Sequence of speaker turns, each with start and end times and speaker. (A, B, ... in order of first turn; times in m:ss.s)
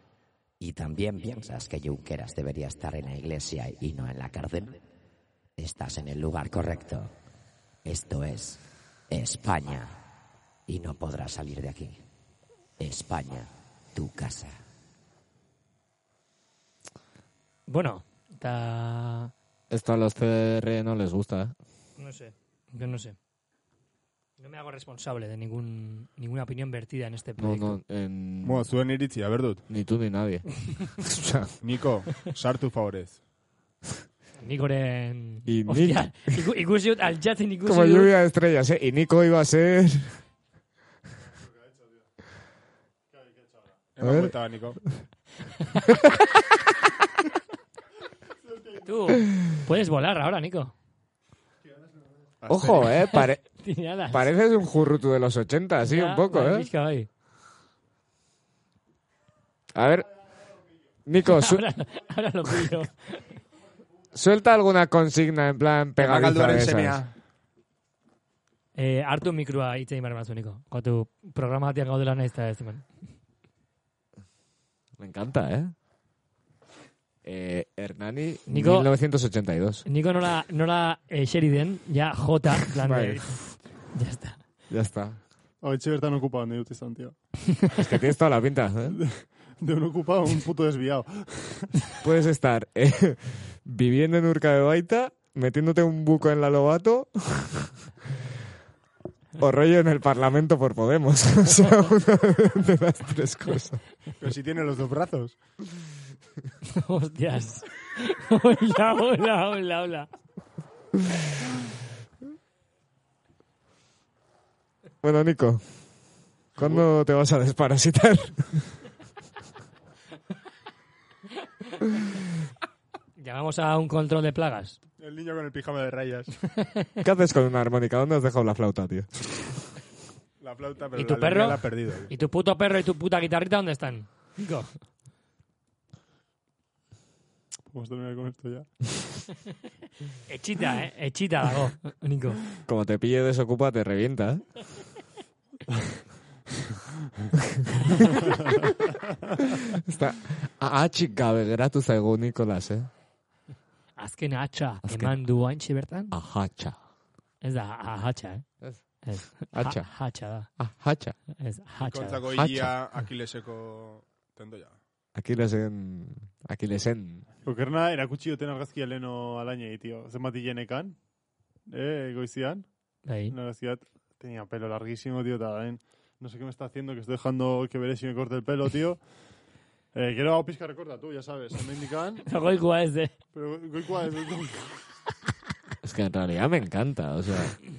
0:00.6-0:04.8 A
0:05.6-0:07.1 A
0:07.8-0:10.0 A
0:10.7-0:12.0 A
0:12.8-0:14.6 A
0:17.7-0:19.3 B
0:19.7-0:21.5 C
0:22.0-0:23.2 B
0:24.4-0:27.8 B
0:27.4-0:28.7 C
0:28.4-0:29.6 D
0:29.7-0:31.5 C
0:31.6-0:33.2 D
0:34.4-0:38.1 B
0:35.4-0:36.3 C
0:37.6-0:40.2 C
0:41.4-0:42.0 E
0:43.1-0:43.7 E
0:44.0-0:44.8 D
0:44.0-0:44.3 C
0:45.6-0:45.9 B
0:48.5-0:48.8 E
0:48.8-0:50.7 B
0:52.4-0:52.9 D
0:52.5-0:53.4 C
0:52.6-0:54.3 B
0:54.1-0:56.7 C
0:55.8-0:57.1 B
0:59.7-1:00.3 C
1:01.0-1:01.6 C
1:01.2-1:03.3 B
1:04.1-1:07.0 C
1:06.0-1:07.1 D
1:08.7-1:12.8 B
1:15.0-1:15.7 C
1:17.2-1:19.8 C
1:18.5-1:18.9 B
1:19.8-1:24.4 B
1:22.8-1:23.5 C
1:24.7-1:25.2 C
1:25.6-1:27.1 E
1:27.7-1:29.0 C
1:28.9-1:31.9 E
1:32.0-1:37.8 C
1:39.4-1:43.8 C
1:44.2-1:45.4 D
1:46.7-1:50.1 B
1:55.0-1:55.6 C
1:56.6-1:58.8 C
2:03.2-2:04.8 B
2:05.0-2:06.4 D
2:07.0-2:09.5 C
2:10.4-2:12.1 D
2:11.0-2:14.7 B
2:17.7-2:18.7 E
2:20.3-2:22.4 B
2:22.6-2:24.5 C
2:27.6-2:28.0 C
2:29.4-2:32.9 C
2:34.0-2:36.1 B
2:34.8-2:35.2 C
2:36.1-2:36.8 C
2:37.4-2:38.4 B
2:38.6-2:39.9 C
2:39.0-2:40.5 B
2:40.6-2:41.2 C
2:41.4-2:42.2 B
2:41.8-2:44.8 D
2:42.3-2:42.7 C
2:45.1-2:47.2 C
2:47.4-2:51.0 E
2:51.7-2:52.6 E
2:53.0-2:53.3 B
2:53.3-2:59.0 E
2:59.9-3:02.3 E
3:02.3-3:03.1 B
3:03.3-3:04.8 E
3:05.8-3:07.6 C